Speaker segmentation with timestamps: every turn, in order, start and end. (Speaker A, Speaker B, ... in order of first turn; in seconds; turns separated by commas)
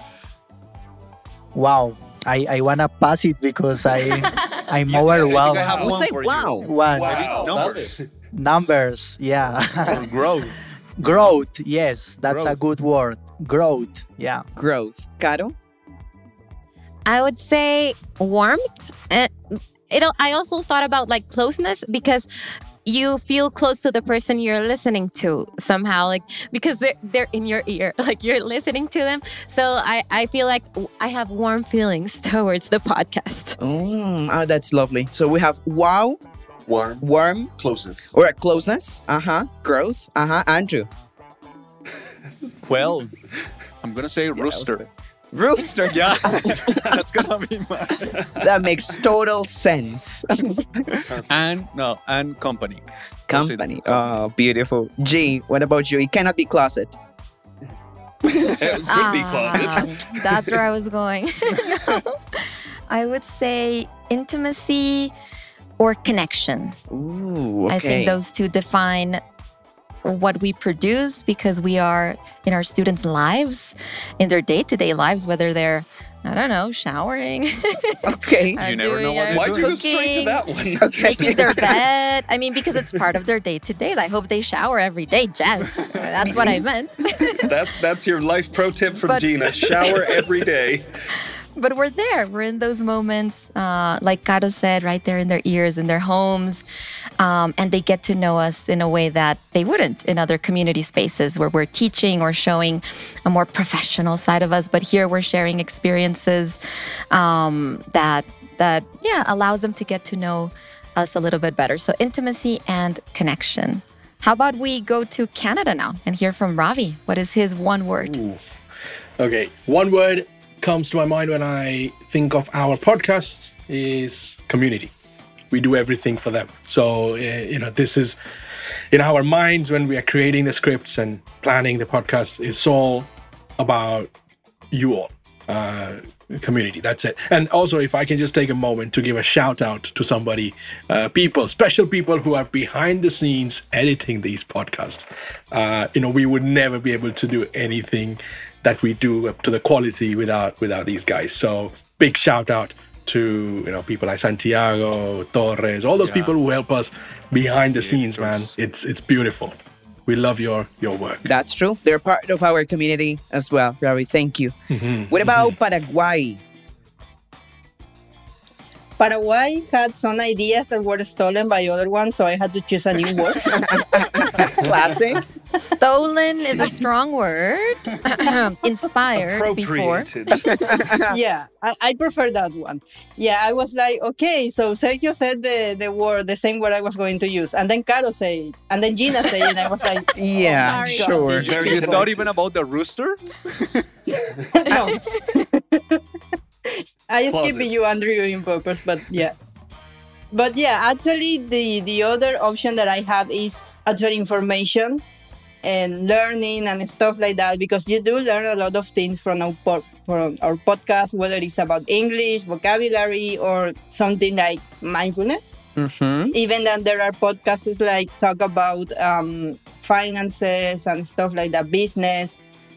Speaker A: 1.5-5.9, Speaker B: 4.8-8.0, Speaker C: 5.2-6.0, Speaker D: 5.8-6.7, Speaker A: 6.6-7.6, Speaker C: 6.9-8.0, Speaker A: 8.3-10.1, Speaker B: 9.9-11.4, Speaker A: 11.0-14.4, Speaker B: 12.3-12.6, Speaker D: 14.6-15.5, Speaker E: 17.1-22.3, Speaker E: 22.8-33.6, Speaker D: 33.6-36.2, Speaker D: 37.0-37.5, Speaker D: 38.1-40.9, Speaker B: 42.6-43.1, Speaker B: 43.8-44.8, Speaker D: 44.3-46.9, Speaker B: 45.9-48.2, Speaker C: 48.1-48.4, Speaker D: 48.4-50.8, Speaker B: 50.9-54.2, Speaker D: 53.3-57.0, Speaker C: 58.4-60.2, Speaker F: 58.9-65.1, Speaker F: 65.8-66.7, Speaker D: 66.9-68.2, Speaker F: 67.7-69.2, Speaker F: 70.0-80.4, Speaker D: 78.0-78.6, Speaker B: 78.6-79.8, Speaker C: 79.3-81.6, Speaker D: 80.8-81.8, Speaker F: 81.0-87.5, Speaker D: 86.2-86.6, Speaker C: 87.5-90.9, Speaker F: 89.0-90.1, Speaker F: 91.5-96.6, Speaker F: 97.2-106.6, Speaker F: 107.1-118.2, Speaker G: 118.0-118.4, Speaker G: 119.2-124.9, Speaker G: 125.5-128.2, Speaker G: 128.9-134.1, Speaker G: 134.7-159.5, Speaker B: 156.0-156.4, Speaker B: 157.7-158.5, Speaker G: 160.1-161.2, Speaker D: 161.2-164.5, Speaker G: 164.7-165.5, Speaker D: 165.1-166.4, Speaker H: 169.0-173.7, Speaker D: 173.3-175.3, Speaker F: 175.5-180.4, Speaker C: 179.2-180.7, Speaker D: 180.5-181.2, Speaker H: 181.1-192.0, Speaker D: 190.1-191.6, Speaker E: 190.3-192.0, Speaker B: 191.2-193.9, Speaker C: 191.3-192.3, Speaker H: 194.5-196.0, Speaker H: 196.6-199.3, Speaker C: 197.3-197.7, Speaker H: 200.3-205.0, Speaker H: 205.6-215.6, Speaker D: 215.8-216.3, Speaker H: 216.3-222.4